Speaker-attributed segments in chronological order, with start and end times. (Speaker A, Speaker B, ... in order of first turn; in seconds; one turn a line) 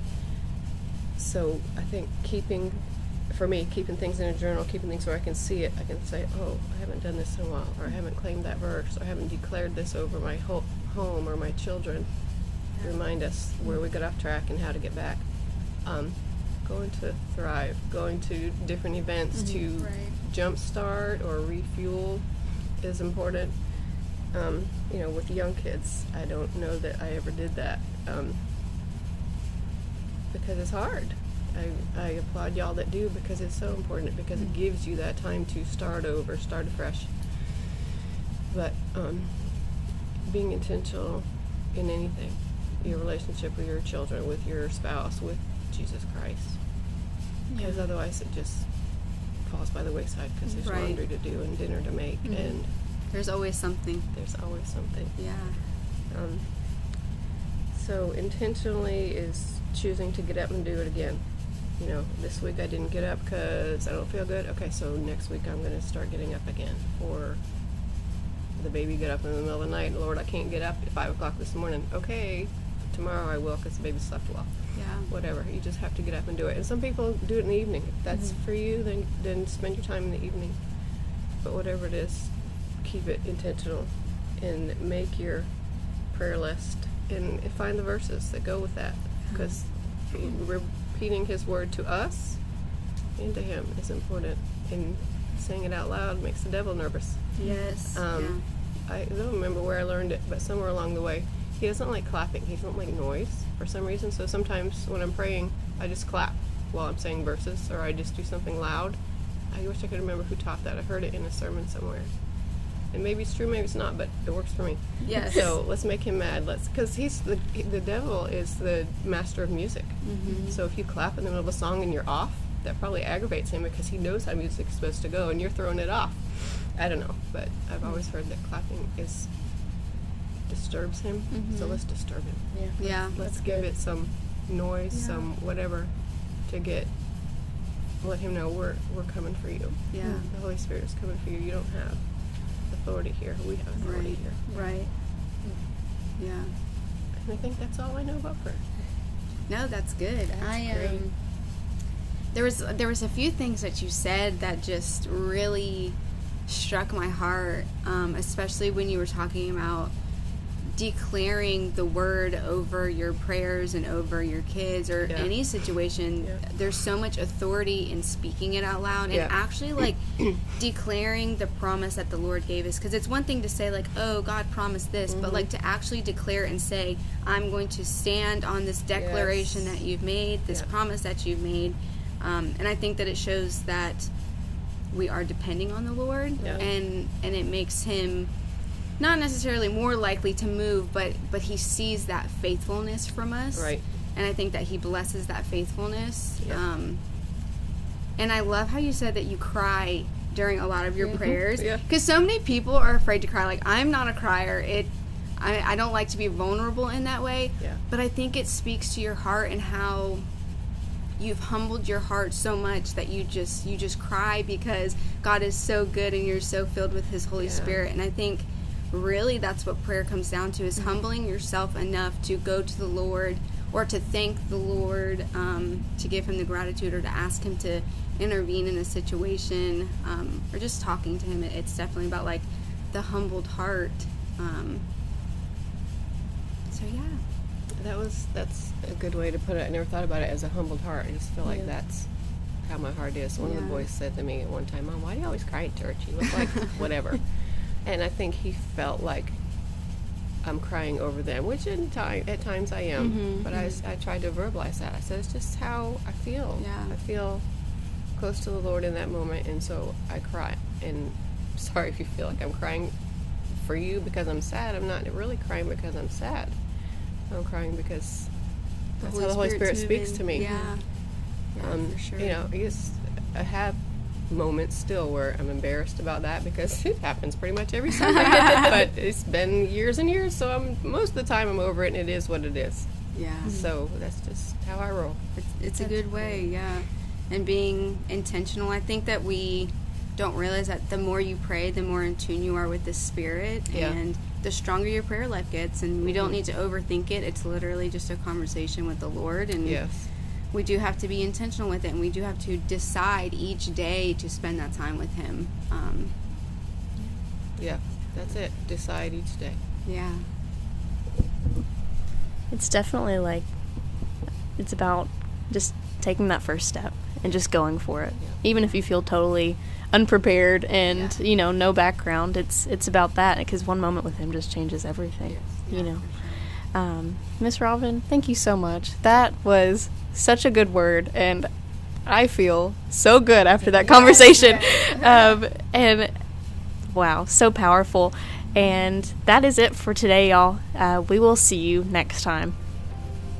Speaker A: 1.1-28.5
Speaker B: 12.7-13.0
Speaker C: 19.3-20.1
Speaker A: 30.3-37.9
Speaker A: 38.5-47.0
Speaker B: 47.5-47.9
Speaker A: 47.6-52.8
Speaker B: 50.6-51.0
Speaker C: 52.2-52.5
Speaker B: 52.4-54.1
Speaker A: 54.1-55.5
Speaker B: 55.1-55.6
Speaker A: 56.1-56.9
Speaker A: 57.7-67.8
Speaker A: 68.5-129.9
Speaker B: 74.7-75.1
Speaker B: 89.3-89.6
Speaker C: 97.4-97.9
Speaker B: 97.4-98.4
Speaker B: 115.0-115.5
Speaker B: 120.0-120.5
Speaker C: 120.2-120.5
Speaker A: 130.4-144.4
Speaker B: 131.3-133.2
Speaker C: 132.5-133.7
Speaker C: 134.9-135.2
Speaker B: 139.9-140.3
Speaker C: 140.0-140.3
Speaker B: 143.8-144.9
Speaker C: 144.5-144.9
Speaker B: 146.2-146.5
Speaker A: 147.1-149.1
Speaker B: 149.5-151.6
Speaker A: 150.4-151.0
Speaker B: 152.3-159.9
Speaker B: 160.6-197.0
Speaker A: 165.0-166.4
Speaker A: 169.1-170.4
Speaker A: 175.1-175.5
Speaker A: 178.9-179.8
Speaker A: 186.4-186.7
Speaker A: 193.5-194.0
Speaker B: 198.2-210.3
Speaker A: 201.1-201.9
Speaker B: 211.2-234.8
Speaker A: 217.4-217.8
Speaker B: 236.7-237.2
Speaker A: 237.7-271.0
Speaker C: 241.4-241.7
Speaker B: 243.4-243.9
Speaker B: 253.0-253.8
Speaker B: 256.6-256.9
Speaker B: 269.0-272.4
Speaker C: 270.3-270.8
Speaker A: 271.6-285.2
Speaker B: 283.1-283.6
Speaker B: 285.4-306.2
Speaker C: 285.8-286.2
Speaker A: 293.7-294.0
Speaker A: 296.0-296.4
Speaker A: 299.6-300.1
Speaker A: 307.6-309.6
Speaker B: 309.8-310.3
Speaker C: 312.5-342.6
Speaker A: 317.2-318.4
Speaker B: 320.9-321.2
Speaker B: 325.2-326.5
Speaker B: 333.7-335.4